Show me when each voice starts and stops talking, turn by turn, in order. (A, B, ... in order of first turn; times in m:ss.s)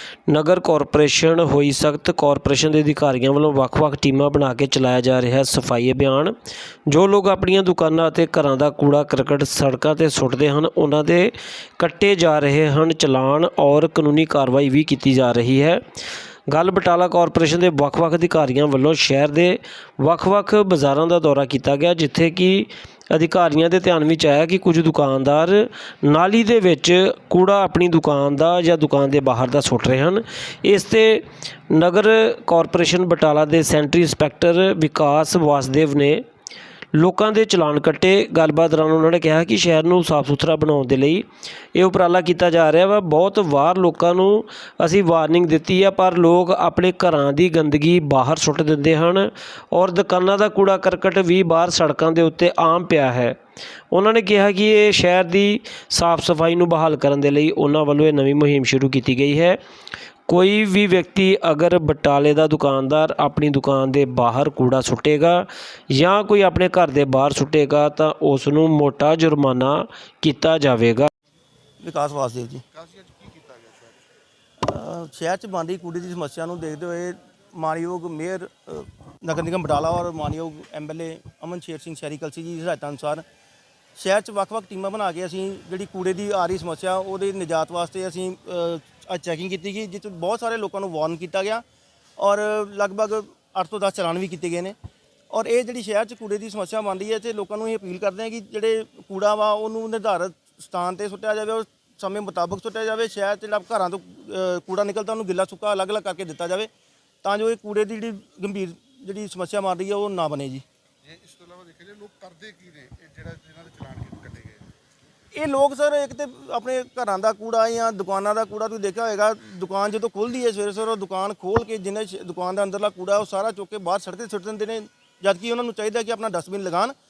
0:00.3-0:06.3 A
0:06.9-0:15.8 A
0:16.5-0:36.2 A
0:36.9-0:53.4 A
0:53.9-0:59.6 A
1:00.3-1:11.1 A
1:11.8-1:12.6 B
1:12.7-1:13.9 C
1:14.6-1:23.2 B
1:24.0-1:31.6 B
1:32.2-1:34.7 B
1:35.3-1:46.7 B
1:47.2-1:50.6 B
1:51.0-1:54.6 C
1:55.3-2:06.9 B